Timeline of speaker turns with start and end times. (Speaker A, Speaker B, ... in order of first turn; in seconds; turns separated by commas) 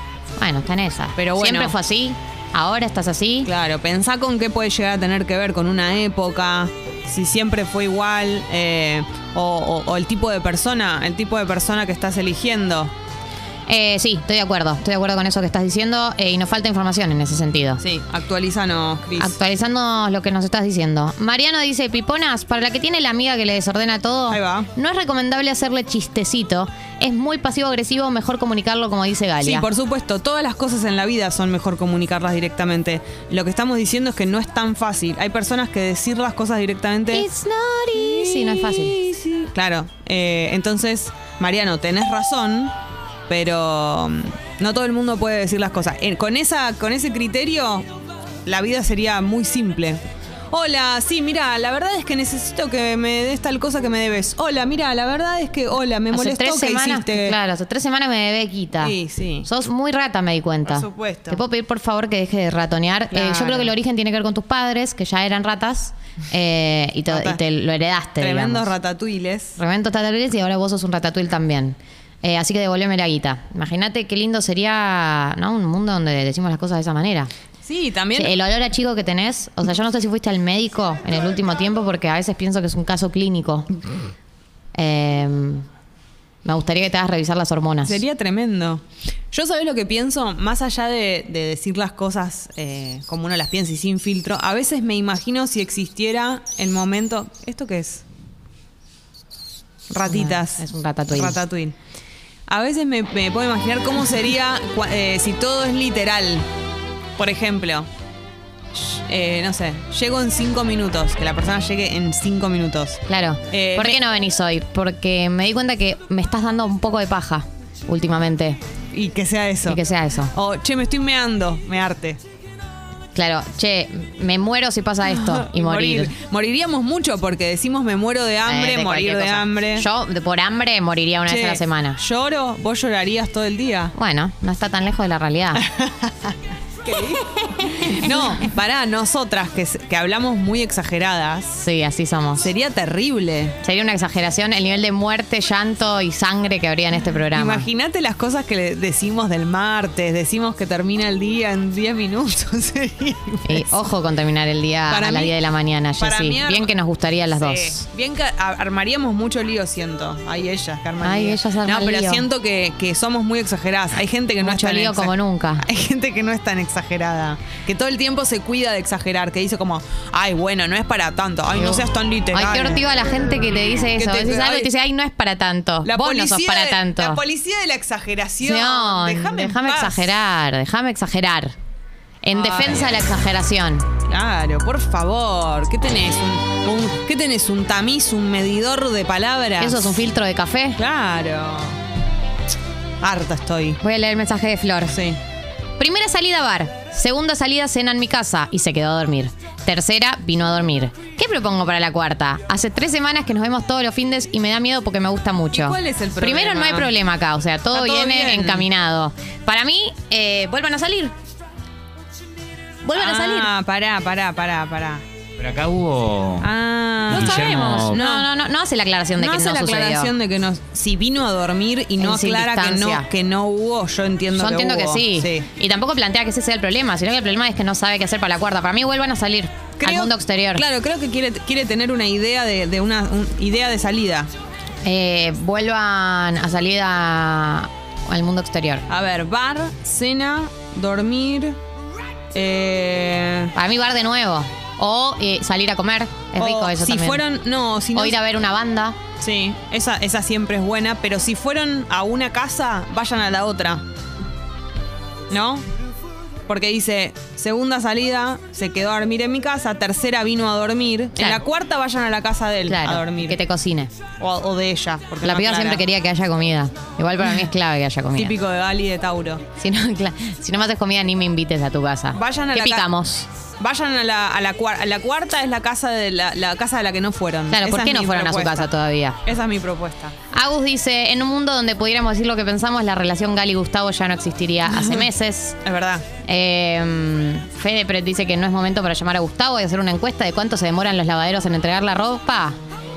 Speaker A: 0.4-3.5, Speaker B: 1.2-1.8, Speaker B: 3.5-12.9, Speaker A: 13.7-17.8, Speaker B: 17.8-19.4, Speaker A: 19.2-29.7, Speaker B: 24.3-24.7, Speaker B: 29.4-37.3, Speaker A: 37.1-39.2, Speaker B: 37.9-42.7, Speaker B: 43.3-47.9, Speaker B: 48.5-57.4, Speaker A: 56.1-68.7, Speaker B: 58.8-59.5, Speaker B: 60.6-61.4, Speaker B: 63.1-63.7, Speaker B: 67.1-67.4, Speaker B: 68.2-69.6, Speaker A: 69.6-77.3, Speaker B: 77.6-78.3, Speaker A: 78.2-83.7, Speaker A: 84.8-85.7, Speaker A: 86.5-88.0, Speaker B: 87.8-98.0, Speaker B: 99.9-101.8, Speaker A: 100.1-101.4, Speaker B: 102.5-106.5, Speaker B: 107.2-107.9, Speaker B: 108.7-114.0, Speaker A: 113.1-118.6, Speaker B: 118.9-122.2, Speaker A: 119.7-120.3, Speaker A: 123.2-126.1, Speaker B: 125.1-129.9, Speaker A: 128.4-132.0, Speaker B: 131.3-133.9, Speaker A: 134.0-135.6, Speaker B: 135.6-141.7, Speaker A: 137.5-138.5, Speaker A: 141.6-142.5, Speaker B: 142.4-143.6, Speaker A: 143.6-147.7, Speaker B: 147.3-153.7, Speaker A: 153.5-157.8, Speaker B: 154.9-155.3, Speaker B: 156.0-156.7, Speaker B: 157.4-172.8, Speaker A: 161.0-162.3, Speaker A: 164.4-165.7, Speaker A: 171.6-177.2, Speaker B: 174.0-174.7, Speaker B: 175.8-180.1, Speaker A: 178.4-181.6, Speaker A: 182.2-183.9, Speaker B: 182.3-183.1, Speaker B: 184.1-190.0, Speaker A: 189.6-190.8, Speaker B: 190.8-191.8, Speaker B: 193.0-193.8, Speaker A: 193.8-195.0, Speaker B: 194.9-195.2, Speaker A: 195.8-211.1, Speaker B: 205.5-206.9, Speaker B: 207.7-208.7, Speaker A: 212.8-213.5, Speaker B: 212.9-215.0, Speaker C: 215.4-216.5, Speaker B: 216.4-218.3, Speaker C: 217.1-218.0, Speaker A: 217.1-220.1, Speaker B: 219.2-225.5, Speaker A: 222.0-223.1, Speaker A: 224.3-230.6, Speaker B: 229.8-234.3, Speaker A: 234.8-238.9, Speaker B: 238.9-241.6, Speaker B: 242.3-243.5, Speaker A: 243.6-247.2, Speaker B: 246.4-248.2, Speaker A: 247.9-249.0, Speaker B: 249.2-253.8, Speaker B: 255.3-255.7, Speaker B: 256.5-263.4, Speaker A: 261.2-261.4, Speaker A: 262.7-263.9, Speaker B: 264.2-265.9, Speaker A: 265.2-268.4, Speaker B: 268.2-269.4, Speaker A: 269.6-273.3, Speaker B: 272.1-272.9, Speaker B: 273.6-278.7, Speaker A: 277.5-279.2, Speaker B: 279.3-280.1, Speaker A: 280.3-285.6, Speaker B: 284.7-285.1, Speaker B: 285.6-286.1, Speaker A: 286.2-292.6